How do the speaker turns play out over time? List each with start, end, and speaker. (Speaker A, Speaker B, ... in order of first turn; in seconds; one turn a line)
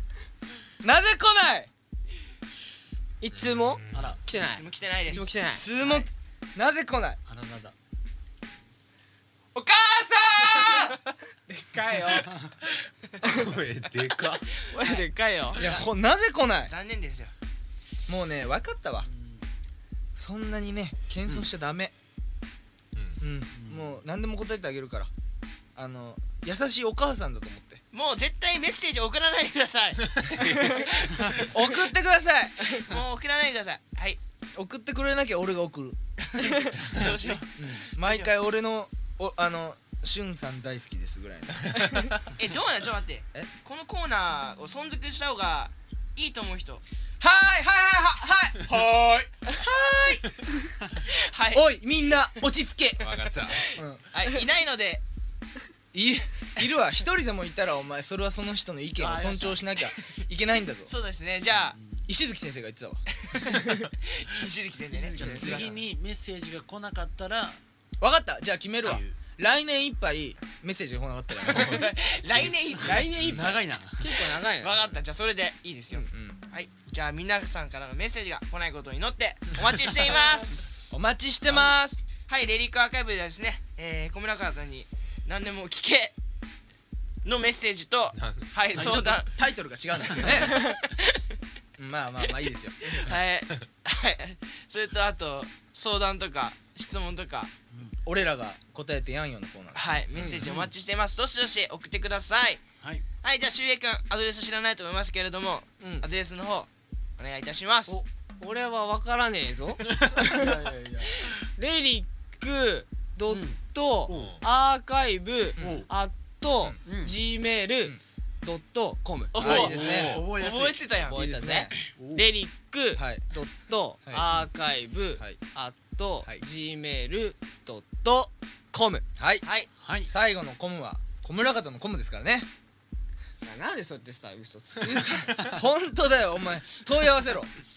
Speaker A: 0.8-1.7
Speaker B: 3.2-5.6
Speaker C: 3.3-4.2
Speaker D: 3.9-4.2
Speaker E: 4.3-6.1
Speaker A: 5.1-7.2
Speaker D: 7.3-7.7
Speaker A: 9.5-10.9
Speaker B: 10.6-10.8
Speaker B: 11.5-12.3
Speaker C: 13.2-14.5
Speaker E: 14.6-15.0
Speaker B: 14.7-15.6
Speaker E: 15.6-15.8
Speaker A: 15.6-16.7
Speaker E: 16.6-17.3
Speaker A: 18.1-19.1
Speaker D: 19.0-19.4
Speaker A: 20.2-21.9
Speaker C: 22.9-23.2
Speaker A: 23.2-25.1
Speaker D: 23.5-24.0
Speaker A: 25.8-27.8
Speaker E: 27.9-31.5
Speaker C: 30.3-30.8
Speaker A: 31.5-32.8
Speaker E: 32.7-34.2
Speaker A: 34.5-36.0
Speaker E: 36.3-38.3
Speaker A: 37.5-41.8
Speaker E: 42.4-46.8
Speaker A: 47.2-50.5
Speaker E: 51.1-51.6
Speaker A: 51.5-54.1
Speaker C: 53.0-53.6
Speaker E: 53.5-55.0
Speaker A: 55.9-60.9
Speaker D: 59.0-59.5
Speaker E: 59.1-60.2
Speaker E: 60.9-61.8
Speaker D: 61.6-62.1
Speaker A: 62.0-63.0
Speaker E: 63.2-65.7
Speaker D: 64.9-67.6
Speaker B: 65.1-65.7
Speaker A: 68.0-71.8
Speaker D: 68.8-69.2
Speaker E: 71.4-73.3
Speaker D: 72.4-74.1
Speaker B: 72.8-74.8
Speaker E: 74.4-80.7
Speaker A: 76.1-76.4
Speaker A: 80.9-82.0
Speaker E: 82.3-86.1
Speaker E: 87.2-89.4
Speaker C: 88.1-88.6
Speaker D: 88.7-89.2
Speaker A: 88.8-90.6
Speaker E: 90.0-91.2
Speaker A: 91.8-92.8
Speaker E: 92.8-97.5
Speaker D: 97.7-98.0
Speaker A: 98.0-100.0
Speaker E: 99.7-102.6
Speaker B: 100.1-100.4
Speaker D: 100.4-100.7
Speaker E: 103.2-108.0
Speaker B: 105.8-106.1
Speaker B: 108.4-110.5
Speaker D: 110.2-111.1
Speaker B: 111.5-119.4
Speaker D: 113.3-113.6
Speaker C: 114.1-114.5
Speaker A: 115.6-115.9
Speaker D: 115.6-115.8
Speaker D: 116.8-117.2
Speaker E: 119.3-121.2
Speaker A: 119.3-120.2
Speaker D: 119.4-120.8
Speaker C: 119.6-120.2
Speaker B: 121.1-129.0
Speaker A: 121.1-121.7
Speaker D: 122.0-122.2
Speaker A: 123.0-123.5
Speaker A: 124.0-124.3
Speaker A: 129.2-129.5
Speaker E: 129.4-129.7
Speaker D: 129.8-130.1
Speaker A: 130.0-132.5
Speaker B: 133.4-135.2
Speaker A: 134.8-137.5